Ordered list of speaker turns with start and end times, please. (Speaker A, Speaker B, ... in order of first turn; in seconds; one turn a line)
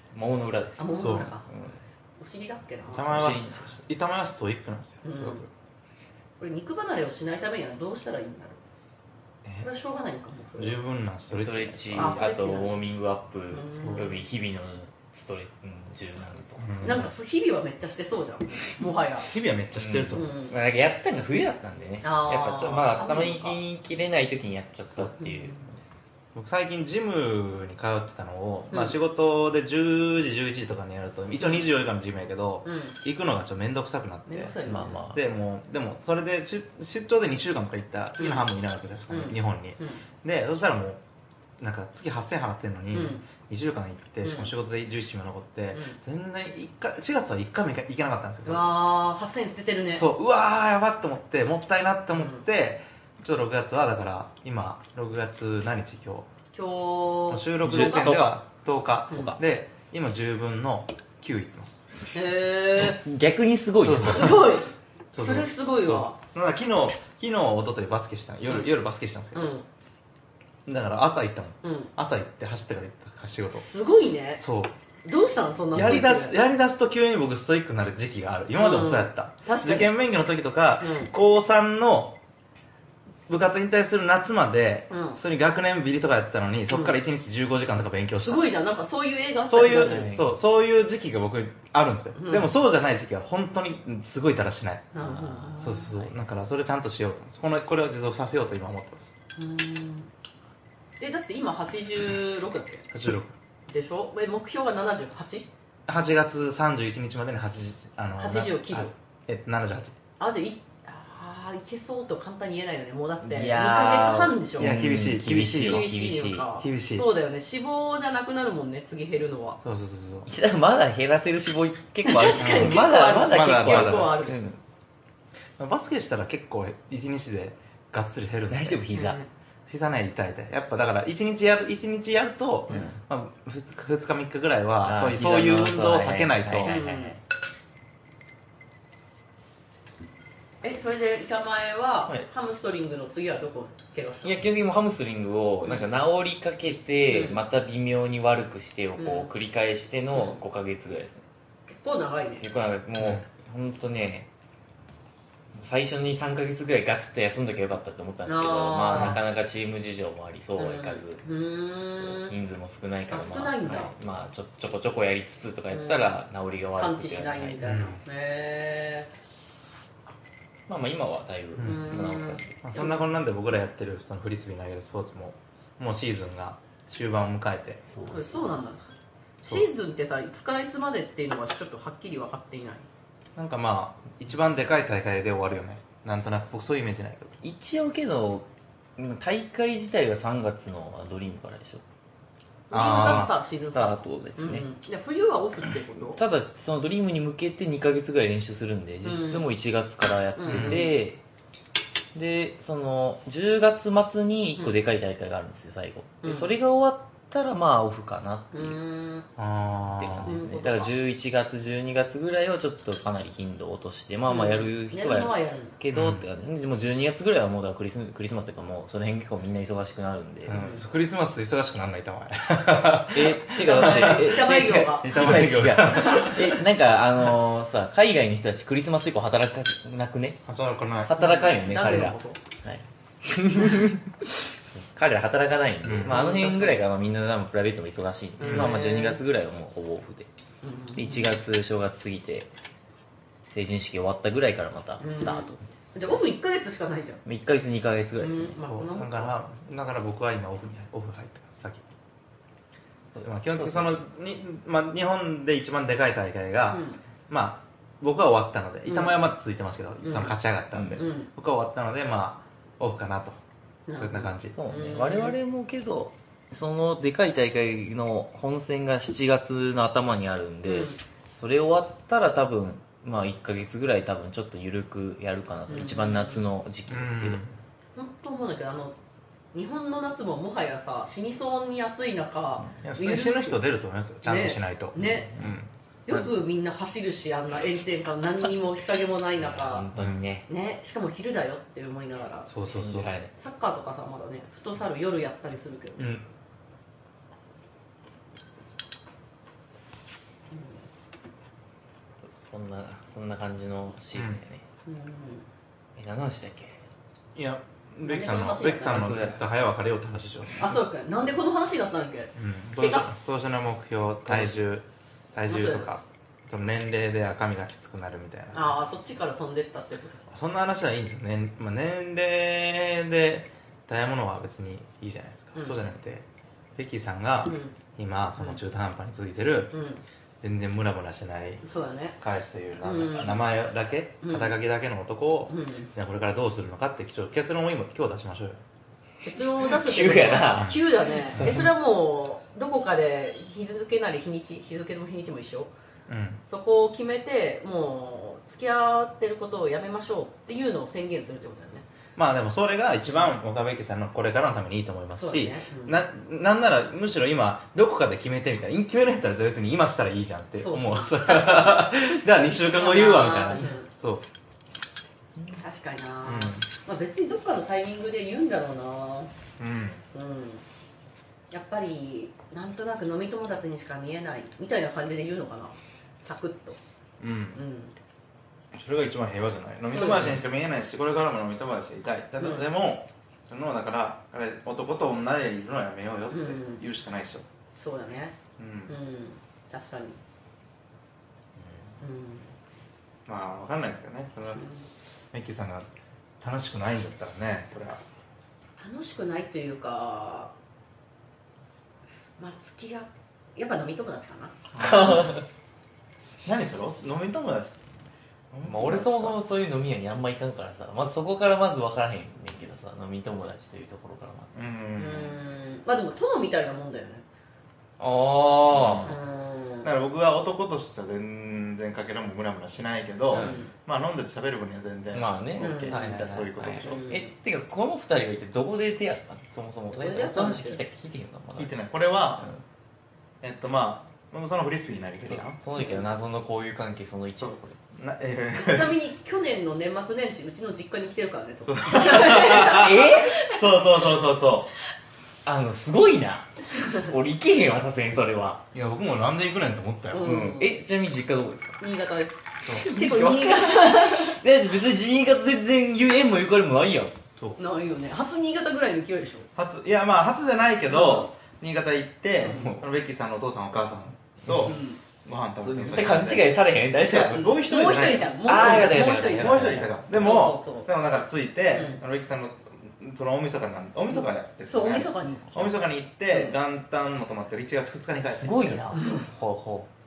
Speaker A: 0.1-1.8
Speaker B: 0.8-1.5
Speaker C: 1.0-1.3
Speaker B: 2.2-3.4
Speaker C: 2.9-5.5
Speaker A: 3.0-3.6
Speaker B: 5.0-5.4
Speaker B: 6.4-8.6
Speaker B: 9.6-10.8
Speaker C: 10.6-12.2
Speaker A: 11.3-17.2
Speaker B: 11.9-12.7
Speaker B: 13.5-14.2
Speaker C: 13.8-14.1
Speaker C: 16.6-17.1
Speaker B: 16.8-19.3
Speaker C: 19.3-20.3
Speaker A: 19.8-25.9
Speaker B: 20.1-20.5
Speaker B: 22.0-23.6
Speaker B: 25.0-25.6
Speaker C: 26.3-34.5
Speaker B: 32.6-33.0
Speaker B: 34.3-35.0
Speaker A: 34.6-35.2
Speaker C: 35.1-41.0
Speaker B: 38.2-38.5
Speaker B: 39.1-40.0
Speaker C: 41.6-48.7
Speaker B: 42.9-43.2
Speaker B: 44.2-44.5
Speaker B: 45.7-46.0
Speaker B: 48.4-50.1
Speaker C: 49.9-56.3
Speaker B: 52.2-52.4
Speaker B: 56.5-58.1
Speaker C: 57.3-61.8
Speaker A: 57.6-58.4
Speaker B: 59.1-59.4
Speaker A: 61.9-62.2
Speaker B: 62.1-63.0
Speaker A: 62.7-64.5
Speaker C: 63.8-64.6
Speaker B: 64.0-66.2
Speaker C: 65.1-69.5
Speaker B: 69.3-69.6
Speaker C: 70.7-73.7
Speaker B: 71.6-71.9
Speaker B: 73.5-74.4
Speaker C: 74.4-74.7
Speaker B: 75.0-76.3
Speaker C: 75.7-82.2
Speaker B: 78.5-79.9
Speaker B: 80.8-81.1
Speaker C: 83.3-88.5
Speaker B: 84.9-85.2
Speaker B: 86.7-87.0
Speaker B: 88.2-90.1
Speaker C: 89.5-94.9
Speaker A: 89.6-90.2
Speaker B: 92.2-92.5
Speaker B: 94.9-96.1
Speaker A: 95.0-95.7
Speaker C: 95.6-99.1
Speaker B: 99.4-100.1
Speaker B: 101.0-102.8
Speaker C: 102.9-103.3
Speaker B: 103.7-105.5
Speaker C: 105.9-110.0
Speaker B: 108.2-108.9
Speaker B: 110.2-114.8
Speaker A: 113.2-116.5
Speaker C: 114.6-115.9
Speaker B: 115.6-119.6
Speaker C: 116.6-117.1
Speaker C: 119.6-120.3
Speaker A: 120.3-124.6
Speaker B: 122.0-124.4
Speaker C: 122.4-124.2
Speaker C: 125.6-128.8
Speaker A: 128.5-129.2
Speaker B: 128.9-129.3
Speaker C: 129.7-136.8
Speaker A: 132.7-133.0
Speaker A: 134.8-137.2
Speaker B: 136.6-137.2
Speaker B: 140.6-144.4
Speaker A: 144.2-151.2
Speaker B: 145.6-145.9
Speaker B: 147.1-147.4
Speaker B: 149.0-149.3
Speaker B: 151.7-152.4
Speaker A: 152.4-154.3
Speaker A: 155.5-161.2
Speaker B: 158.2-159.2
Speaker C: 158.9-159.2
Speaker B: 160.6-162.3
Speaker A: 162.0-167.7
Speaker B: 163.1-163.9
Speaker B: 165.7-166.2
Speaker B: 166.8-169.1
Speaker C: 167.6-168.0
Speaker A: 170.7-172.6
Speaker C: 171.6-171.9
Speaker B: 171.6-173.1
Speaker C: 172.6-177.8
Speaker A: 177.9-178.4
Speaker B: 178.0-182.8
Speaker C: 183.3-187.3
Speaker A: 187.4-188.4
Speaker A: 189.0-191.8
Speaker B: 192.7-196.2
Speaker C: 192.7-193.3
Speaker A: 192.8-194.7
Speaker A: 196.2-201.2
Speaker B: 199.0-199.4
Speaker B: 200.4-200.9
Speaker C: 200.5-200.8
Speaker A: 202.1-208.8
Speaker B: 206.2-206.5
Speaker B: 208.5-209.3
Speaker C: 209.4-210.4
Speaker A: 210.0-220.6
Speaker B: 210.2-210.9
Speaker B: 214.3-215.8
Speaker C: 215.9-216.2
Speaker C: 220.5-224.4
Speaker B: 220.5-220.8
Speaker A: 223.1-230.4
Speaker B: 223.6-226.3
Speaker C: 225.0-226.6
Speaker C: 230.4-231.2
Speaker A: 231.0-234.1
Speaker B: 231.2-232.4
Speaker A: 234.7-240.3
Speaker C: 235.8-236.2
Speaker B: 236.0-236.8
Speaker B: 238.4-239.2
Speaker C: 238.4-238.8
Speaker B: 240.6-241.3
Speaker A: 240.9-242.5
Speaker A: 243.5-245.6
Speaker B: 245.0-247.2
Speaker A: 247.2-248.6
Speaker B: 248.2-249.3
Speaker C: 248.7-251.8
Speaker A: 253.1-254.0
Speaker C: 253.2-263.4
Speaker B: 256.7-257.0
Speaker B: 258.9-259.1
Speaker B: 260.0-260.3
Speaker A: 260.7-261.1
Speaker B: 261.0-261.3
Speaker B: 263.9-265.3
Speaker C: 264.0-264.6
Speaker A: 264.5-277.4
Speaker B: 270.6-271.0
Speaker B: 275.7-276.4
Speaker C: 276.9-277.6
Speaker B: 277.9-278.9
Speaker B: 279.5-283.6
Speaker C: 282.8-285.7
Speaker B: 284.2-285.3
Speaker A: 285.0-285.5
Speaker B: 286.1-289.9
Speaker A: 289.4-290.5
Speaker C: 289.9-290.2
Speaker B: 290.5-292.5
Speaker C: 292.5-293.1
Speaker A: 292.6-293.3
Speaker B: 293.4-296.1
Speaker C: 296.0-296.2
Speaker B: 300.5-300.8
Speaker A: 302.2-304.6
Speaker C: 304.1-304.4
Speaker B: 304.9-305.4
Speaker A: 306.0-306.8
Speaker C: 307.3-310.7
Speaker B: 308.0-309.3
Speaker A: 308.8-309.4
Speaker B: 310.6-313.1
Speaker C: 312.4-319.0
Speaker B: 315.5-315.9
Speaker B: 318.5-320.3
Speaker C: 320.3-326.2
Speaker B: 325.6-325.9
Speaker C: 326.8-329.7
Speaker B: 327.4-327.7
Speaker B: 329.7-330.0
Speaker C: 330.4-331.6
Speaker B: 331.6-332.1
Speaker C: 332.2-338.6
Speaker B: 332.8-333.4
Speaker B: 334.2-334.6
Speaker B: 335.5-335.9
Speaker B: 339.2-345.7
Speaker A: 339.5-341.6
Speaker C: 340.5-340.8
Speaker C: 341.3-341.7
Speaker C: 346.1-346.4
Speaker B: 346.4-351.9
Speaker C: 352.1-364.2
Speaker B: 355.1-356.0
Speaker B: 360.6-361.9
Speaker B: 362.4-363.9
Speaker B: 365.6-369.3
Speaker C: 366.2-366.7
Speaker C: 369.6-370.0
Speaker B: 370.1-370.6
Speaker B: 371.5-376.8
Speaker C: 377.2-377.6
Speaker B: 377.5-377.9
Speaker C: 378.7-387.4
Speaker B: 379.9-380.4
Speaker B: 382.4-382.7
Speaker B: 386.3-386.8
Speaker B: 387.8-388.4
Speaker C: 388.6-388.9
Speaker B: 388.9-390.2
Speaker B: 392.0-392.5
Speaker C: 393.2-394.6
Speaker B: 394.5-394.8
Speaker C: 395.3-395.9
Speaker C: 396.4-398.0
Speaker B: 398.8-400.5
Speaker B: 402.4-404.5
Speaker C: 404.7-405.4
Speaker A: 404.8-405.4
Speaker C: 406.4-407.8
Speaker C: 408.5-409.4
Speaker A: 408.6-414.6
Speaker C: 414.5-415.4
Speaker B: 415.0-417.2
Speaker A: 418.0-419.1
Speaker C: 418.7-419.1
Speaker B: 419.1-419.9
Speaker C: 419.8-427.0
Speaker A: 423.3-423.6
Speaker B: 423.3-423.7
Speaker A: 425.1-431.8
Speaker B: 425.6-426.1
Speaker B: 426.8-427.3
Speaker B: 429.9-430.8
Speaker C: 431.6-432.4
Speaker C: 433.4-435.6
Speaker A: 435.2-437.8
Speaker B: 435.8-436.0
Speaker C: 437.4-438.9
Speaker B: 438.5-443.6
Speaker C: 441.6-444.7
Speaker A: 442.0-443.4
Speaker A: 445.4-448.6
Speaker C: 448.7-450.4
Speaker B: 450.1-450.7
Speaker A: 450.2-451.8
Speaker B: 451.8-454.4
Speaker A: 452.7-457.1
Speaker B: 457.6-459.5
Speaker C: 459.6-478.8
Speaker B: 460.9-461.3
Speaker B: 462.4-462.7
Speaker A: 462.4-462.8
Speaker A: 464.5-464.7
Speaker B: 464.6-465.0
Speaker A: 465.6-467.6
Speaker B: 467.3-470.9
Speaker A: 468.4-470.0
Speaker B: 471.7-472.0
Speaker B: 474.1-476.6
Speaker A: 478.2-479.9
Speaker B: 479.0-479.2